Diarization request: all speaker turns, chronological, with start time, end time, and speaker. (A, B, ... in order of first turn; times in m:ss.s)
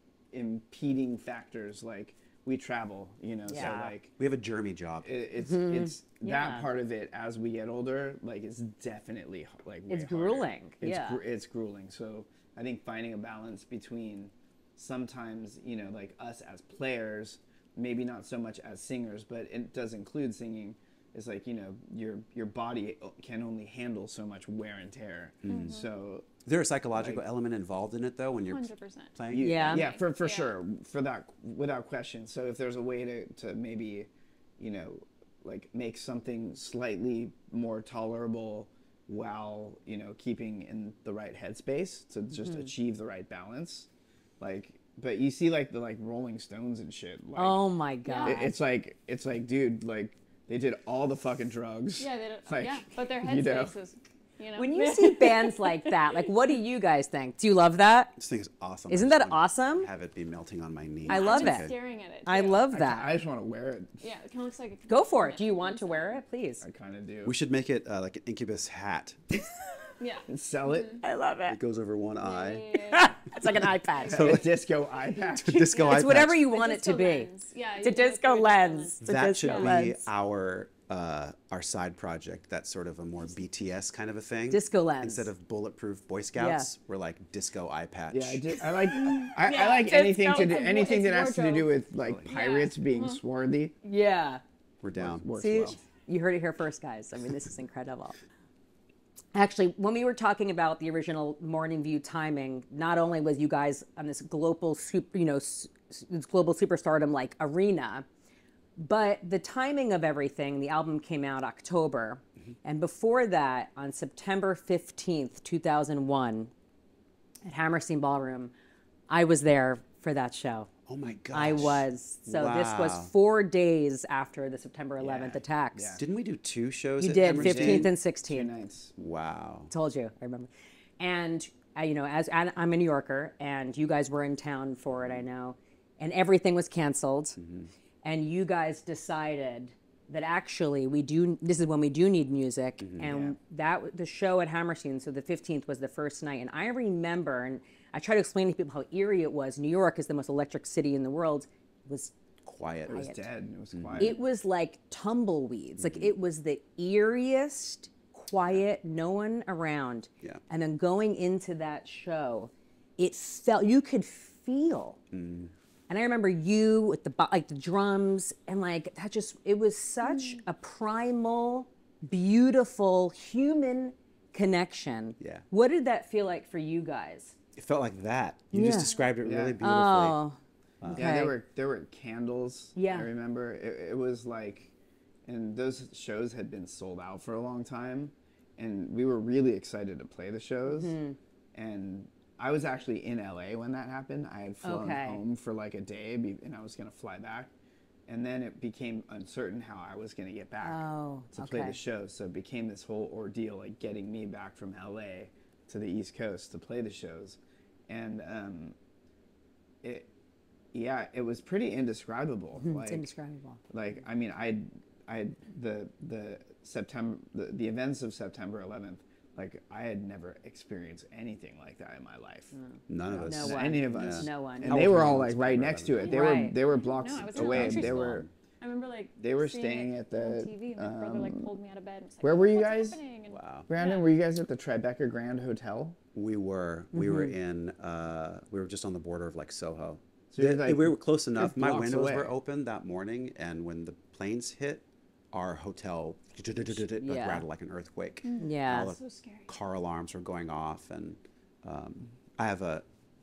0:00.3-0:04.1 A
0:03.5-0:03.9 B
0:03.5-0:05.1 C
0:05.0-0:26.3 A
0:05.4-0:06.7 B
0:09.9-0:11.2 B
0:25.4-0:25.8 C
0:25.5-0:25.9 D
0:26.4-0:29.7 C
0:27.0-0:27.2 A
0:28.5-0:30.5 D
0:29.3-0:43.9 A
0:29.4-0:29.9 B
0:42.4-0:42.6 B
0:44.4-0:47.6 A
0:47.4-0:48.5 B
0:48.0-0:48.4 D
0:48.2-0:53.7 A
0:52.0-0:56.3 D
0:54.6-0:58.2 B
0:58.2-1:01.7 C
0:58.9-0:59.9 B
1:01.0-1:02.6 D
1:01.1-1:01.7 B
1:02.2-1:03.1 B
1:02.7-1:04.0 A
1:04.0-1:06.2 D
1:04.9-1:06.6 B
1:06.6-1:07.3 A
1:07.2-1:09.5 C
1:10.0-1:11.0 D
1:10.3-1:11.0 A
1:11.0-1:11.6 B
1:11.5-1:12.7 C
1:12.2-1:13.2 D
1:12.9-1:14.4 B
1:14.0-1:14.3 D
1:14.0-1:14.5 C
1:14.0-1:15.7 A
1:15.3-1:16.4 C
1:15.7-1:19.8 D
1:15.8-1:20.0 B
1:19.0-1:28.7 C
1:24.5-1:25.3 B
1:26.4-1:26.7 B
1:28.1-1:33.7 A
1:28.9-1:33.2 D
1:33.8-1:34.4 B
1:34.8-1:35.3 C
1:35.0-1:35.8 A
1:35.4-1:38.2 B
1:39.3-1:48.0 B
1:48.8-1:56.5 B
1:57.4-1:58.5 B
1:59.1-2:00.7 B
2:00.9-2:03.1 C
2:01.3-2:05.9 B
2:05.0-2:06.0 A
2:06.0-2:07.9 C
2:07.0-2:08.5 B
2:07.2-2:08.9 A
2:09.0-2:09.7 C
2:09.7-2:17.4 B
2:17.4-2:17.7 C
2:18.0-2:32.1 B
2:22.8-2:23.1 C
2:23.0-2:23.4 A
2:32.4-2:33.0 C
2:32.9-2:33.2 B
2:32.9-2:34.2 A
2:33.7-2:34.1 C
2:34.0-2:45.0 B
2:35.8-2:36.1 C
2:45.1-2:45.5 C
2:45.9-2:57.4 B
2:50.0-2:50.4 D
2:57.6-3:00.2 C
2:58.5-2:59.0 B
2:59.2-2:59.6 A
2:59.6-3:00.4 B
3:00.8-3:01.1 C
3:00.9-3:04.7 A
3:00.9-3:01.3 B
3:02.8-3:03.1 B
3:05.2-3:10.9 A
3:10.7-3:11.2 B
3:11.5-3:17.5 A
3:14.6-3:15.2 B
3:18.1-3:28.7 A
3:20.6-3:21.8 B
3:29.8-3:30.1 A
3:30.7-3:33.1 A
3:32.6-3:33.6 B
3:33.7-3:42.5 A
3:42.5-3:44.9 B
3:42.9-3:46.1 C
3:43.1-3:48.2 A
3:46.0-3:46.6 B
3:46.0-3:54.1 D
3:47.3-3:48.3 C
3:49.2-3:51.5 A
3:52.2-3:53.0 A
3:53.3-3:53.7 C
3:53.7-3:56.0 A
3:56.1-4:12.8 C
3:56.9-3:57.3 B
4:00.3-4:02.3 A
4:07.0-4:07.4 B
4:08.2-4:09.5 D
4:08.4-4:08.9 B